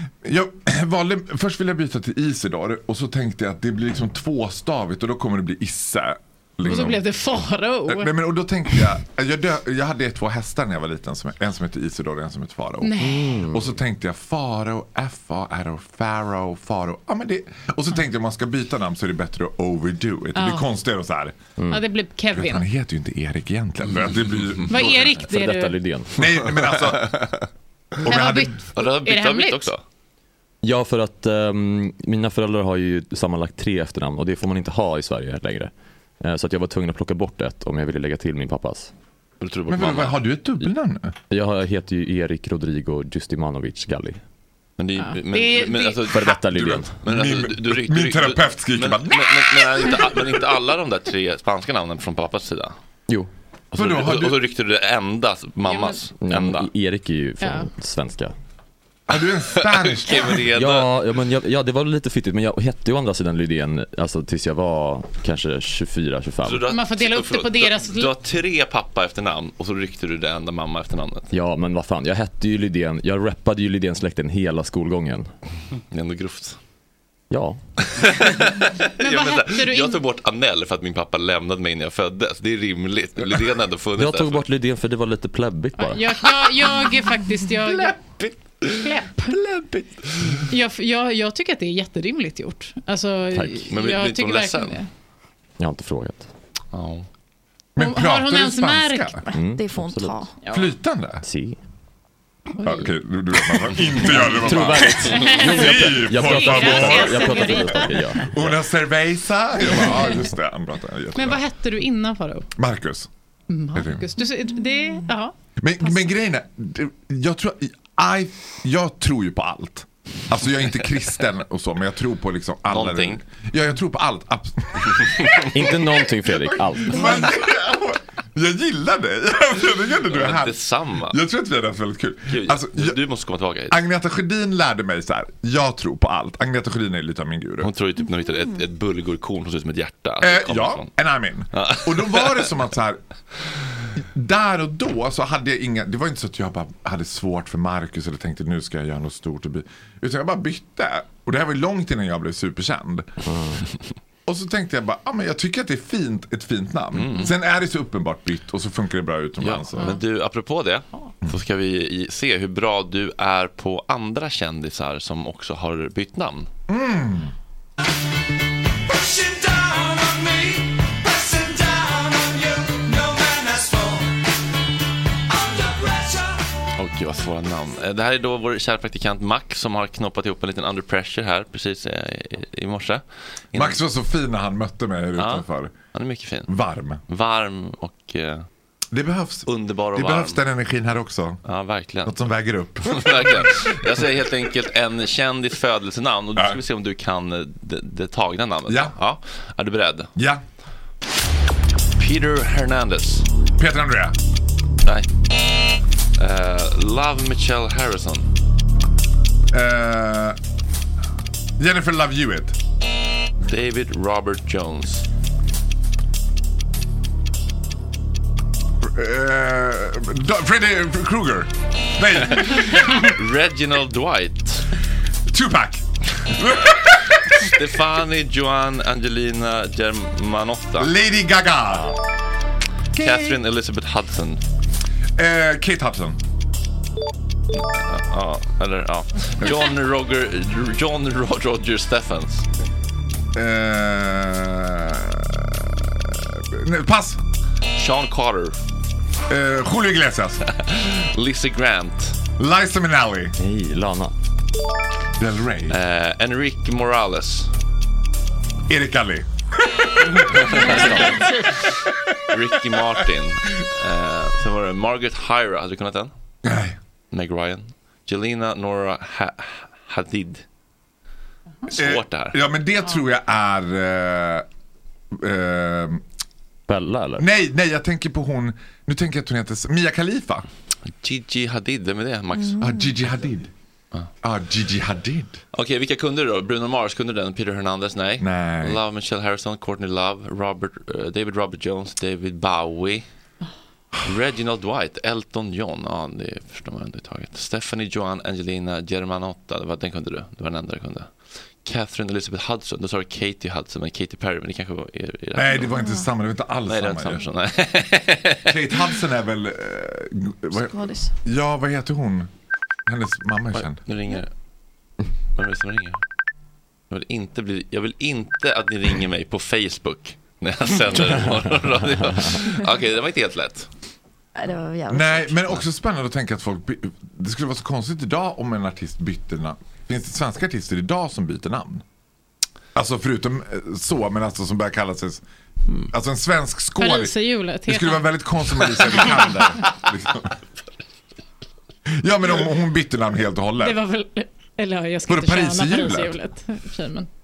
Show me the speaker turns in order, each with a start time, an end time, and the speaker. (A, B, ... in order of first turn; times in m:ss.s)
0:00.2-0:07.0 A
0:06.6-0:08.1 B
0:07.9-0:12.9 A
0:12.8-0:13.2 B
0:13.0-0:13.7 C
0:13.5-0:21.4 A
0:20.3-0:20.7 B
0:21.6-0:21.8 C
0:21.7-0:22.6 B
0:22.3-0:25.1 A
0:24.1-0:24.6 D
0:24.7-0:25.7 B
0:25.2-0:26.2 C
0:26.2-0:27.2 A
0:26.5-0:27.4 D
0:28.0-0:28.6 A
0:28.0-0:29.7 B
0:28.7-0:29.8 D
0:30.6-0:38.9 C
0:39.4-0:40.2 D
0:39.7-0:41.1 A
0:41.3-0:44.2 C
0:44.8-0:46.5 D
0:45.0-0:46.1 B
0:46.1-0:46.9 C
0:46.5-0:49.6 A
0:47.0-0:52.8 D
0:53.7-0:54.4 A
0:53.7-0:56.7 D
0:55.6-0:56.0 B
0:56.2-0:58.3 C
0:57.4-0:57.7 B
0:59.1-1:00.4 A
0:59.4-1:00.9 D
1:00.5-1:06.6 C
1:06.4-1:11.3 D
1:06.7-1:08.1 B
1:11.3-1:15.3 C
1:15.9-1:16.6 D
1:17.3-1:17.6 C
1:17.9-1:24.4 D
1:19.0-1:20.0 B
1:24.0-1:26.0 C
1:25.8-1:28.0 B
1:28.8-1:29.3 B
1:29.3-1:30.3 A
1:30.5-1:34.9 B
1:33.3-1:33.7 C
1:33.7-1:34.8 D
1:35.6-1:36.3 C
1:36.7-1:37.1 D
1:37.8-1:39.2 A
1:37.8-1:39.2 B
1:39.3-1:40.3 E
1:39.3-1:40.2 C
1:40.4-1:40.8 B
1:40.5-1:41.2 A
1:41.2-1:41.6 C
1:42.6-1:42.9 B
1:42.6-1:51.4 A
1:44.0-1:48.5 C
1:45.1-1:48.2 B
1:49.7-1:50.1 B
1:51.1-1:52.5 B
1:52.6-1:53.1 A
1:53.5-1:56.1 B
1:53.7-1:54.1 A
1:55.6-2:10.5 A
2:02.7-2:03.2 D
2:05.5-2:07.3 C
2:07.0-2:07.2 E
2:10.1-2:11.2 D
2:11.1-2:13.0 A
2:12.3-2:13.8 D
2:13.7-2:17.7 A
2:17.6-2:20.9 D
2:20.2-2:23.0 A
2:21.5-2:22.5 D
2:24.1-2:33.1 A
2:33.2-2:33.6 C
2:34.2-2:39.9 A
2:36.9-2:37.3 D
2:39.4-2:46.5 D
2:46.7-2:47.3 A
2:48.9-2:54.1 F
2:55.3-2:56.2 F
2:56.8-3:03.8 D
3:03.5-3:05.7 A
3:05.1-3:06.5 D
3:06.5-3:07.0 A
3:07.1-3:08.4 D
3:08.9-3:11.4 A
3:09.4-3:10.4 D
3:11.4-3:12.2 D
3:12.0-3:13.5 A
3:12.8-3:20.1 D
3:18.7-3:18.9 A
3:20.2-3:20.4 A
3:22.0-3:23.3 D
3:23.6-3:24.2 A
3:26.2-3:28.3 D
3:29.5-3:30.4 A
3:31.6-3:32.6 A
3:33.4-3:35.0 D
3:38.8-3:43.1 A
3:42.2-3:44.7 D
3:45.3-3:47.5 A
3:47.4-3:50.9 D
3:50.8-3:51.9 A
3:52.9-3:54.4 D
3:55.2-3:56.2 A
3:57.5-4:02.5 D
4:03.3-4:07.2 A
4:07.7-4:08.6 D
4:09.3-4:10.4 A
4:10.5-4:12.2 D
4:12.4-4:13.3 A
4:13.3-4:14.2 C
4:15.2-4:15.8 A
4:15.7-4:17.5 D
4:18.7-4:21.2 A
4:20.1-4:26.1 D
4:20.5-4:21.5 B
4:26.4-4:26.8 A
4:27.1-4:30.4 D
4:31.7-4:32.4 D
4:31.7-4:34.4 A
4:35.1-4:36.0 A
4:36.7-4:37.2 C
4:37.2-4:40.4 A
4:40.9-4:42.6 D
4:42.4-4:42.9 E
4:42.6-4:43.5 A
4:44.2-4:45.4 A
4:45.5-4:53.0 D
4:48.2-4:48.8 A
4:54.0-5:01.1 D
5:01.6-5:05.8 D
5:05.3-5:07.2 A
5:05.5-5:06.1 E
5:06.7-5:08.5 D
5:08.5-5:12.3 A
5:10.6-5:11.1 E
5:12.9-5:13.8 A
5:13.5-5:14.3 D
5:15.4-5:16.0 D
5:16.9-5:23.7 D
5:20.9-5:22.4 C
5:24.4-5:25.6 E
5:24.9-5:31.8 A
5:32.7-5:35.2 A
5:35.9-5:40.3 A
5:36.8-5:38.1 B
5:38.7-5:39.5 D
5:42.0-5:43.8 A
5:43.6-5:47.1 B
5:45.1-5:46.1 A